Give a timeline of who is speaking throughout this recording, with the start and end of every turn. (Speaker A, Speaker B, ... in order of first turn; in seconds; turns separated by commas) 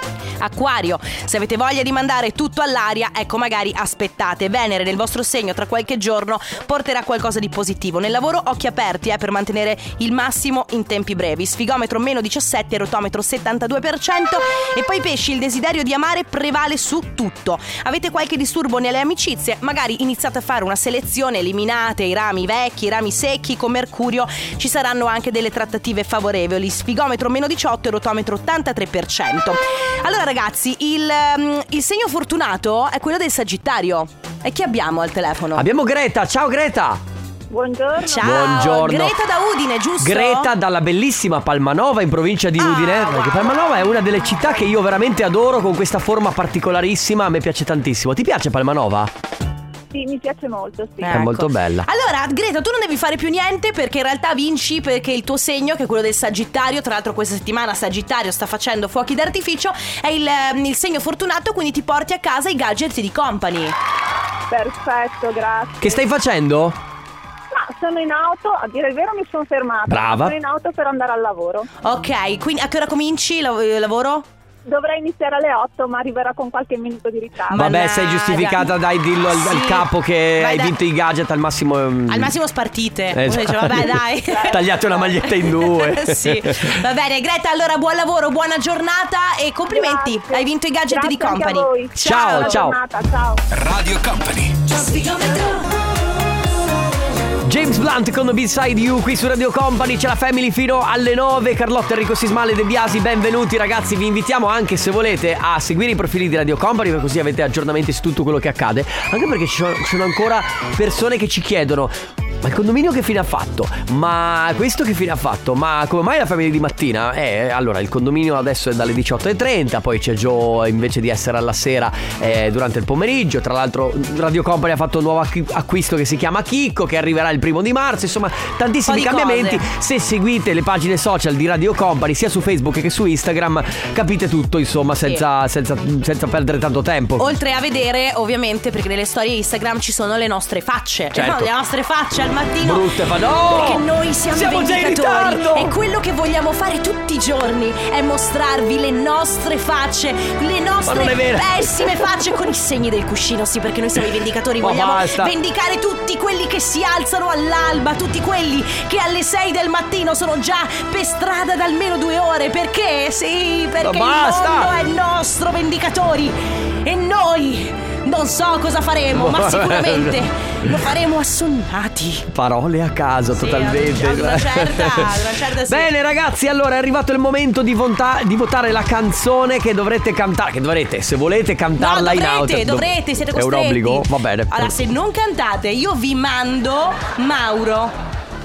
Speaker A: 0.4-35.6, Speaker B: 35.5-37.0, Speaker C: 37.5-38.2, Speaker A: 38.1-40.5, Speaker B: 38.2-39.2, Speaker B: 40.0-49.1, Speaker A: 42.6-44.2, Speaker C: 49.9-51.2, Speaker A: 51.0-63.8, Speaker B: 51.1-51.9, Speaker C: 64.5-66.0, Speaker B: 65.8-66.8, Speaker C: 67.5-71.7, Speaker B: 69.9-70.4, Speaker A: 71.8-74.3, Speaker C: 74.7-77.6, Speaker A: 77.5-78.7, Speaker B: 77.5-82.3, Speaker A: 79.3-80.8, Speaker A: 82.1-84.7, Speaker B: 83.1-86.8, Speaker C: 84.2-85.1, Speaker A: 85.4-92.6, Speaker C: 89.7-93.4, Speaker B: 92.0-92.8, Speaker B: 97.4-137.3, Speaker A: 128.9-129.6, Speaker A: 137.2-142.9, Speaker B: 141.1-141.5, Speaker B: 142.6-145.7, Speaker A: 143.5-172.3, Speaker B: 150.9-152.1, Speaker B: 154.6-155.3, Speaker B: 163.8-164.7, Speaker B: 169.1-170.2, Speaker B: 172.3-175.2, Speaker A: 173.3-175.9, Speaker B: 175.7-184.8, Speaker A: 181.8-187.9